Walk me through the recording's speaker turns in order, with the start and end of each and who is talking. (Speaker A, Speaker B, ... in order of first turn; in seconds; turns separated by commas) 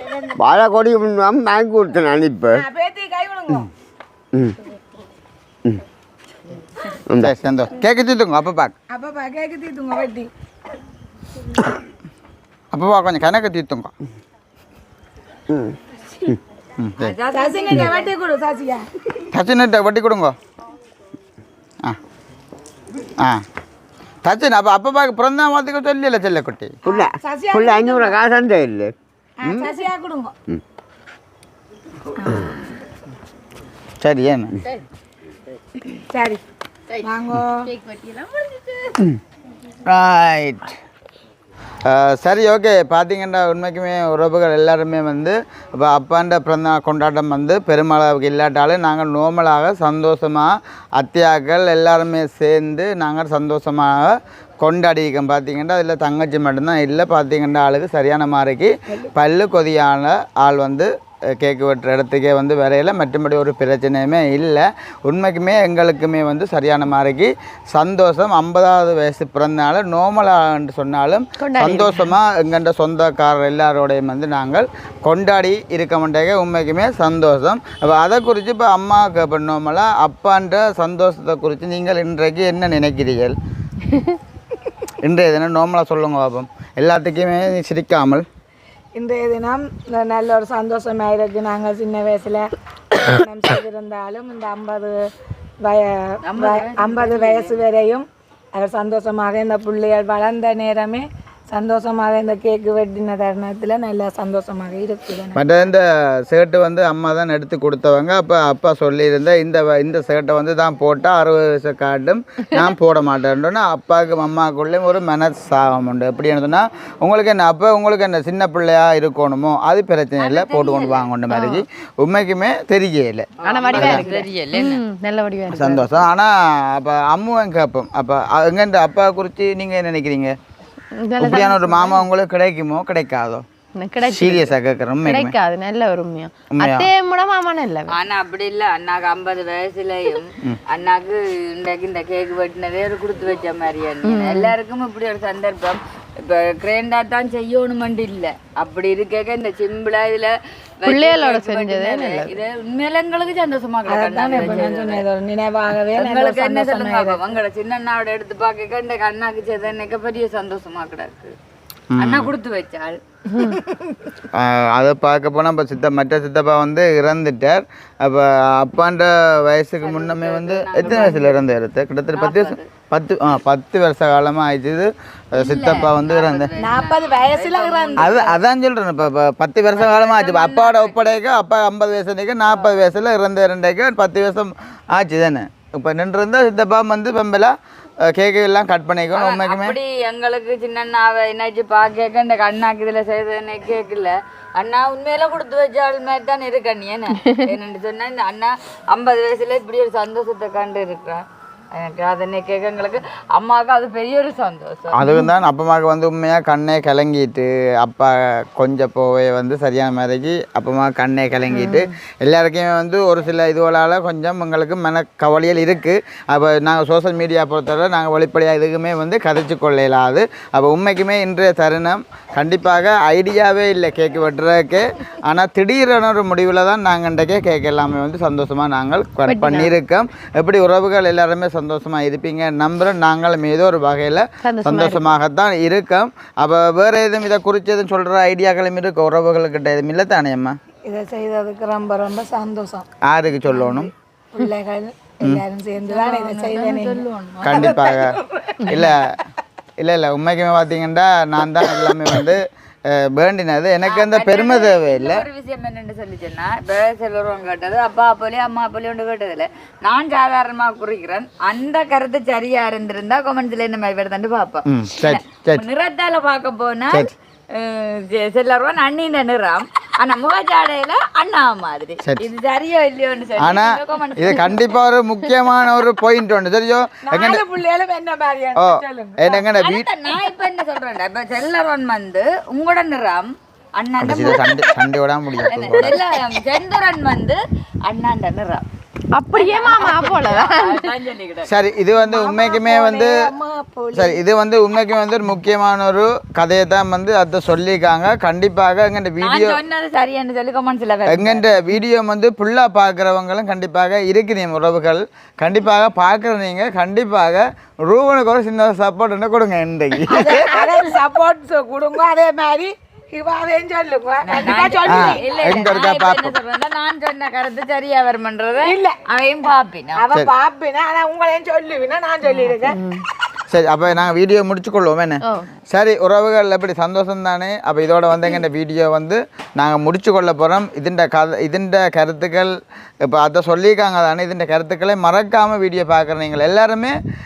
Speaker A: 0.2-2.6, Speaker B: 2.5-3.7, Speaker C: 7.2-8.7, Speaker B: 8.9-10.3, Speaker C: 12.7-13.9, Speaker A: 15.5-15.8, Speaker C: 16.8-17.1, Speaker D: 17.0-18.1, Speaker B: 17.3-18.9, Speaker C: 19.3-20.4, Speaker C: 24.2-26.7, Speaker B: 26.9-28.2, Speaker A: 26.9-28.9, Speaker B: 29.4-30.3, Speaker B: 32.2-32.7, Speaker C: 34.0-34.5, Speaker B: 36.1-36.4, Speaker B: 37.0-37.7, Speaker E: 37.8-38.9, Speaker C: 39.9-40.8, Speaker C: 41.9-83.4, Speaker E: 71.4-72.1, Speaker C: 85.0-88.2, Speaker B: 89.0-95.0, Speaker B: 95.6-105.4, Speaker D: 96.3-97.6, Speaker C: 105.3-124.0, Speaker D: 120.2-121.1, Speaker E: 121.3-121.6, Speaker E: 123.4-126.0, Speaker D: 123.4-124.8, Speaker C: 125.5-130.3, Speaker E: 131.0-132.1, Speaker C: 131.2-133.4, Speaker E: 133.8-138.0, Speaker C: 134.0-135.4, Speaker C: 136.5-136.9, Speaker D: 137.9-155.0, Speaker E: 144.0-144.6, Speaker E: 150.8-152.4, Speaker B: 153.9-157.2, Speaker D: 155.9-161.3, Speaker C: 161.9-162.3, Speaker D: 162.0-163.0, Speaker C: 164.3-176.5, Speaker D: 169.8-171.4, Speaker D: 172.1-172.6, Speaker D: 175.3-178.3, Speaker B: 176.6-178.4, Speaker C: 178.0-187.5, Speaker D: 179.7-181.2, Speaker D: 182.5-182.8, Speaker C: 188.1-189.8, Speaker D: 189.1-205.0, Speaker C: 204.9-240.6, Speaker E: 211.5-211.9, Speaker E: 229.3-229.7, Speaker E: 234.4-235.2, Speaker B: 240.8-242.9, Speaker C: 243.0-243.9, Speaker B: 243.7-248.5, Speaker D: 245.8-247.7, Speaker C: 247.4-249.2, Speaker C: 249.8-255.2, Speaker D: 253.8-274.6, Speaker C: 264.7-265.6, Speaker C: 273.4-277.4, Speaker B: 277.1-279.4, Speaker C: 278.6-279.9, Speaker D: 279.6-284.7, Speaker C: 284.0-286.0, Speaker D: 285.4-288.6, Speaker E: 289.1-290.9, Speaker D: 289.3-291.5, Speaker C: 291.5-293.2, Speaker B: 292.0-294.2, Speaker C: 293.9-299.6, Speaker D: 299.2-301.5, Speaker C: 301.1-310.4, Speaker B: 310.1-315.5, Speaker D: 314.2-320.1, Speaker C: 314.9-316.4, Speaker B: 318.6-319.0, Speaker B: 320.0-322.8, Speaker E: 322.5-323.0, Speaker C: 323.5-337.0, Speaker E: 325.2-325.5